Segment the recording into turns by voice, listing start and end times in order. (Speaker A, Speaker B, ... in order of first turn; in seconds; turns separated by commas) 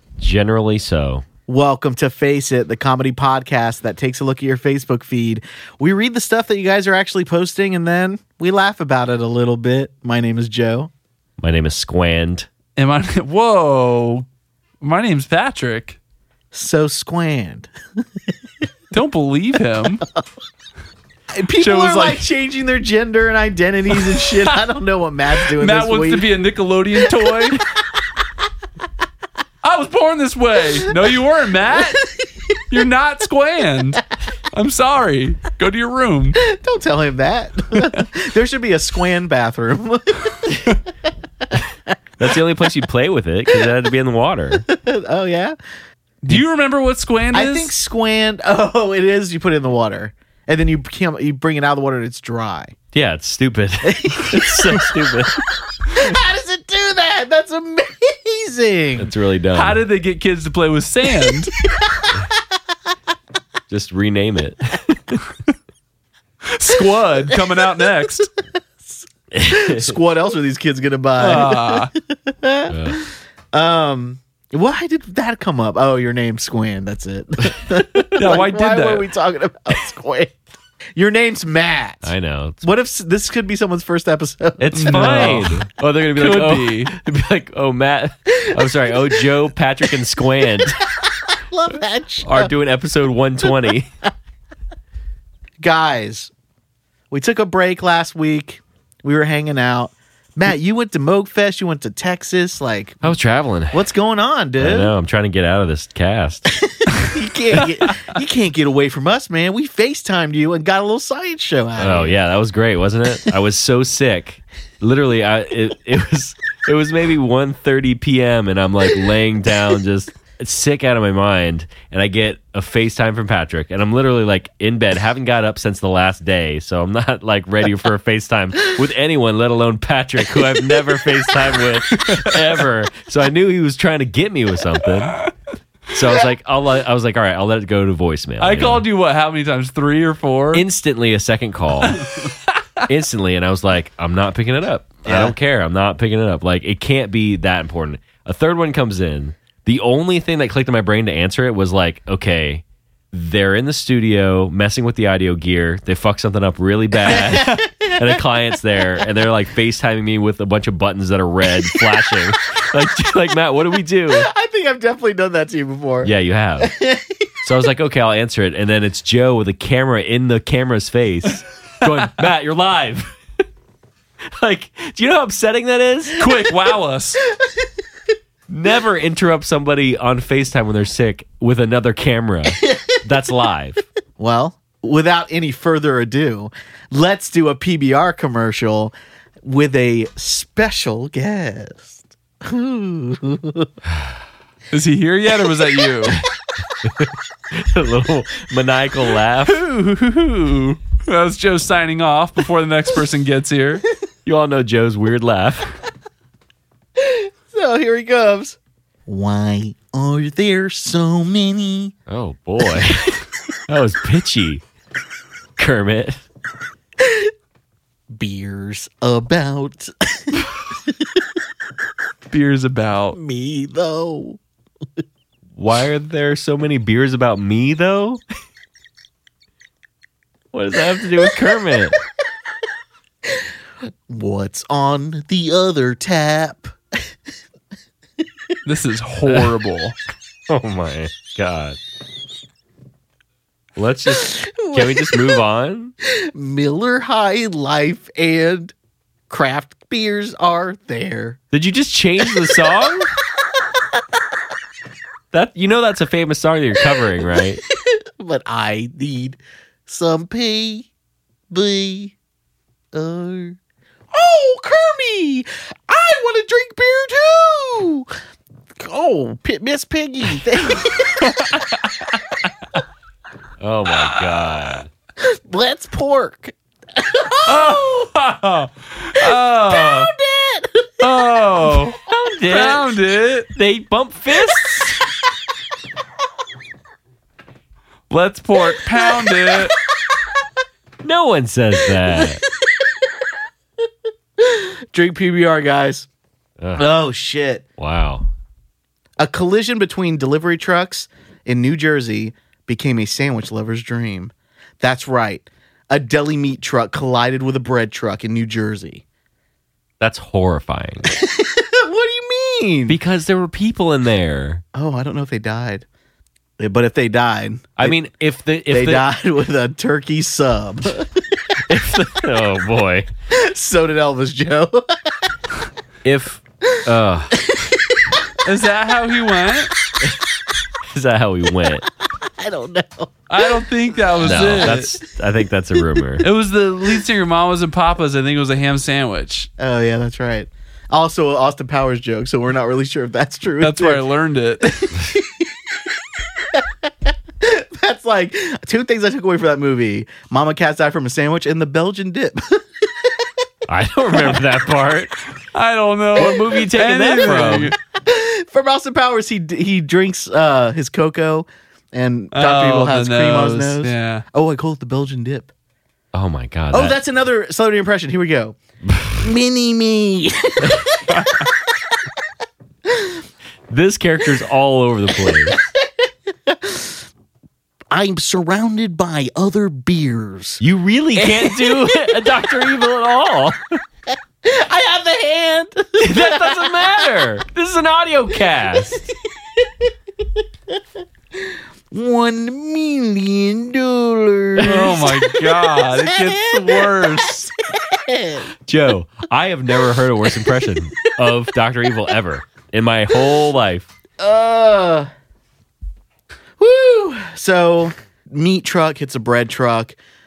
Speaker A: 0.2-1.2, Speaker B: 1.5-10.9, Speaker A: 11.4-12.5, Speaker C: 12.8-14.3, Speaker C: 14.8-16.0, Speaker B: 16.5-17.7, Speaker C: 18.9-20.0, Speaker B: 21.3-26.3, Speaker C: 21.6-22.2, Speaker C: 24.1-24.5, Speaker C: 25.5-27.6, Speaker C: 29.6-32.0, Speaker B: 31.9-32.3, Speaker C: 32.7-34.0, Speaker C: 34.5-36.4, Speaker B: 36.4-40.8, Speaker A: 42.2-44.6, Speaker B: 44.7-45.6, Speaker C: 46.2-47.7, Speaker B: 47.3-52.8, Speaker A: 52.9-55.4, Speaker B: 53.9-54.9, Speaker B: 55.9-59.1, Speaker A: 59.0-59.8, Speaker C: 59.5-61.5, Speaker B: 61.8-62.2, Speaker A: 63.7-65.3, Speaker C: 66.5-68.3, Speaker B: 68.8-80.4, Speaker A: 69.3-69.8, Speaker C: 71.2-71.9, Speaker A: 72.7-73.0, Speaker C: 78.2-79.1, Speaker B: 81.0-85.5, Speaker A: 82.0-82.7, Speaker A: 84.6-90.8, Speaker C: 84.8-86.9, Speaker B: 88.9-89.2, Speaker B: 91.0-92.5, Speaker A: 92.2-93.9, Speaker B: 95.6-96.3, Speaker B: 97.1-103.2, Speaker A: 103.0-103.8, Speaker B: 103.7-104.9, Speaker A: 104.6-106.5, Speaker B: 106.5-112.2, Speaker A: 111.8-135.2, Speaker C: 132.0-132.3, Speaker A: 135.9-138.8, Speaker C: 138.4-140.6, Speaker A: 140.5-142.0, Speaker C: 141.9-142.5, Speaker A: 142.9-164.3, Speaker B: 145.0-145.3, Speaker B: 157.1-158.2, Speaker B: 158.8-159.1, Speaker B: 164.1-167.1, Speaker A: 166.0-166.7, Speaker A: 167.4-173.1, Speaker A: 174.4-176.2, Speaker C: 176.2-177.2, Speaker A: 178.5-183.8, Speaker B: 184.2-188.9, Speaker B: 189.4-193.7, Speaker C: 194.7-196.2, Speaker A: 196.8-199.6, Speaker C: 199.4-203.8, Speaker A: 204.3-205.7, Speaker B: 207.0-211.9, Speaker A: 212.1-214.6, Speaker A: 215.6-216.2, Speaker B: 218.1-220.5, Speaker C: 222.3-223.2, Speaker B: 223.1-224.4, Speaker A: 225.6-228.2, Speaker A: 230.5-231.9, Speaker B: 234.1-236.8, Speaker C: 238.7-240.0, Speaker A: 239.3-239.5, Speaker A: 240.5-241.8, Speaker A: 243.8-245.9, Speaker B: 244.1-245.4, Speaker B: 246.3-248.7, Speaker B: 249.3-251.4, Speaker A: 251.5-253.1, Speaker A: 255.3-257.6, Speaker B: 257.7-260.9, Speaker B: 261.5-262.2, Speaker B: 262.9-263.6, Speaker B: 264.1-268.1, Speaker B: 268.8-271.6, Speaker C: 271.2-271.9, Speaker A: 273.6-274.9, Speaker B: 275.2-277.8, Speaker C: 277.5-280.1, Speaker B: 279.2-281.0, Speaker C: 281.0-282.0, Speaker A: 282.0-282.9, Speaker C: 282.5-283.5, Speaker A: 283.6-285.0, Speaker C: 288.1-289.7, Speaker B: 288.6-289.6, Speaker A: 291.0-292.4, Speaker B: 292.1-292.4, Speaker B: 294.4-296.1, Speaker A: 296.6-296.9, Speaker B: 296.8-297.6, Speaker A: 297.8-298.3, Speaker B: 299.2-309.0, Speaker A: 310.0-311.1, Speaker B: 311.1-313.0, Speaker A: 312.9-314.6, Speaker B: 314.7-315.9, Speaker B: 316.6-318.0, Speaker A: 317.8-319.1, Speaker B: 318.7-321.2, Speaker A: 321.7-323.1, Speaker B: 323.3-324.9, Speaker A: 326.0-327.3, Speaker C: 328.4-329.7, Speaker A: 330.9-331.8, Speaker B: 332.4-333.4, Speaker C: 333.3-334.9, Speaker B: 334.2-334.8, Speaker A: 334.2-336.3, Speaker C: 336.2-339.5, Speaker B: 339.6-344.0, Speaker C: 343.6-344.6, Speaker B: 344.6-345.5, Speaker B: 347.4-353.1, Speaker A: 353.7-355.2, Speaker B: 354.1-354.4, Speaker C: 355.5-357.8, Speaker A: 356.1-357.8, Speaker B: 357.9-365.5, Speaker C: 362.3-364.2, Speaker A: 366.1-367.0, Speaker B: 366.7-368.6, Speaker B: 369.1-371.5, Speaker C: 371.1-371.5, Speaker A: 373.7-375.6, Speaker B: 375.2-375.9, Speaker B: 376.5-377.1, Speaker B: 377.9-380.6, Speaker A: 380.6-383.8, Speaker B: 381.1-382.2, Speaker B: 384.4-387.1, Speaker A: 386.0-389.0, Speaker B: 388.7-389.2, Speaker B: 391.9-398.5, Speaker C: 394.6-397.5, Speaker A: 398.7-403.9, Speaker B: 400.3-401.3, Speaker B: 404.2-405.1, Speaker B: 406.6-410.0